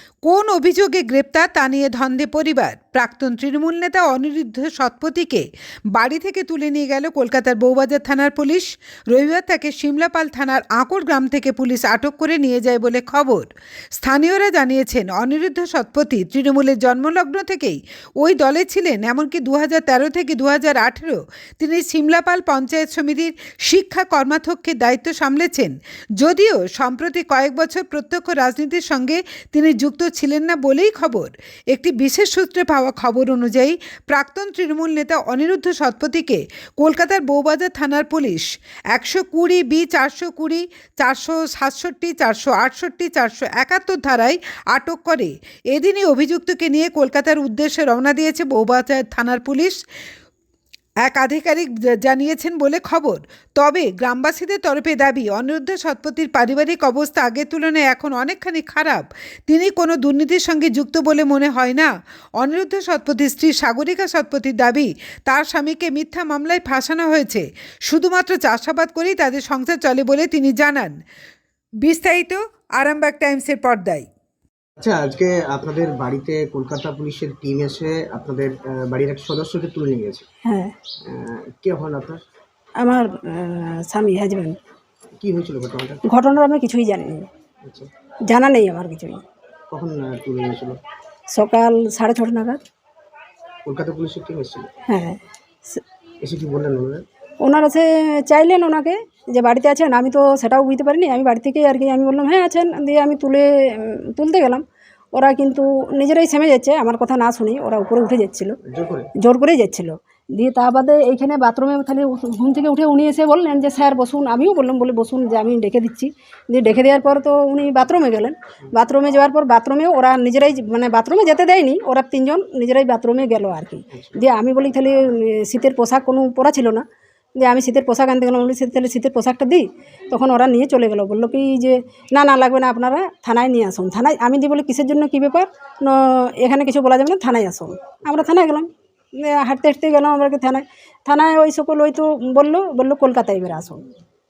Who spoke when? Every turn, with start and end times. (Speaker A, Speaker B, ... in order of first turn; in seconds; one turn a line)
Speaker A: 0.2-49.8
Speaker A: 51.0-70.9
Speaker A: 71.8-74.1
Speaker B: 74.8-80.2
Speaker C: 80.5-80.7
Speaker B: 81.0-82.2
Speaker C: 82.8-84.6
Speaker B: 85.2-86.0
Speaker C: 86.1-87.2
Speaker B: 87.6-87.9
Speaker C: 88.3-89.2
Speaker B: 89.7-90.8
Speaker C: 91.3-92.6
Speaker B: 93.6-94.7
Speaker C: 94.9-95.2
Speaker B: 96.2-97.0
Speaker C: 97.4-104.6
Speaker C: 105.1-108.5
Speaker B: 108.7-109.1
Speaker C: 109.2-126.8
Speaker B: 123.9-124.2
Speaker C: 127.4-143.8